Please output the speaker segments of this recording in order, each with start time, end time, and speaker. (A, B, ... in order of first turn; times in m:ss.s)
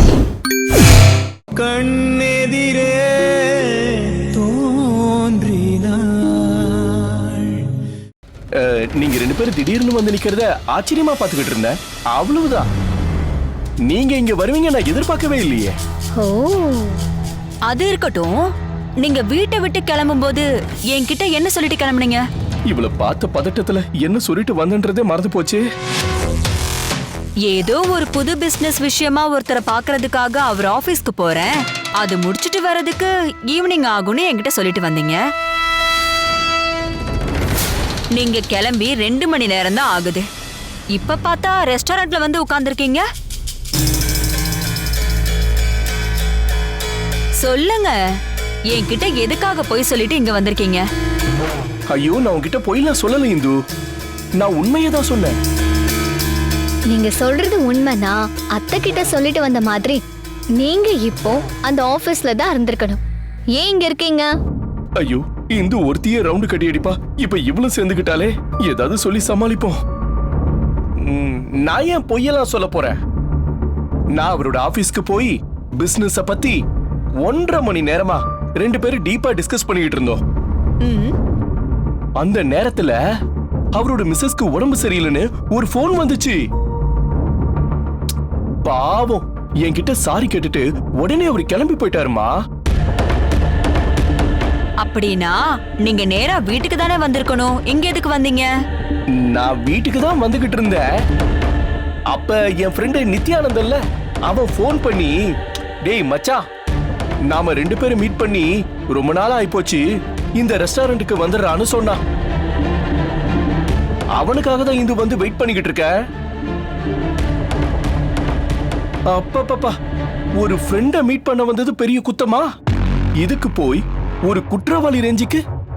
0:05.4-0:05.8 A
0:08.5-0:12.7 A
0:13.9-0:15.7 A
0:16.1-0:17.0 B
0:17.7-0:18.4 C
0:19.0-0:22.2 C
0:22.7-0:25.6 A
0:27.4-0:35.2 C
0:38.1-0:40.2 C
0:40.9-0:43.0 C
0:47.4-0:47.9 C
0:48.7-0:50.8 C
0:51.9-0:53.6 A
0:54.4-0:55.4 A
0:56.9-1:00.0 B
1:00.6-1:03.0 B
1:03.5-1:04.3 B
1:05.0-1:09.8 A
1:11.0-1:13.0 A
1:14.1-1:16.6 A
1:17.2-1:20.2 A
1:20.8-1:21.1 C
1:22.2-1:23.0 A
1:23.7-1:26.4 A
1:28.6-1:32.3 A
1:34.8-1:38.5 C
1:39.2-1:40.8 A
1:42.1-1:45.1 A
1:45.8-1:46.4 A
1:47.3-1:49.8 A
1:50.4-1:52.0 A
1:54.2-1:55.9 A
1:59.1-1:59.8 A
2:00.4-2:02.5 A
2:03.2-2:05.4 A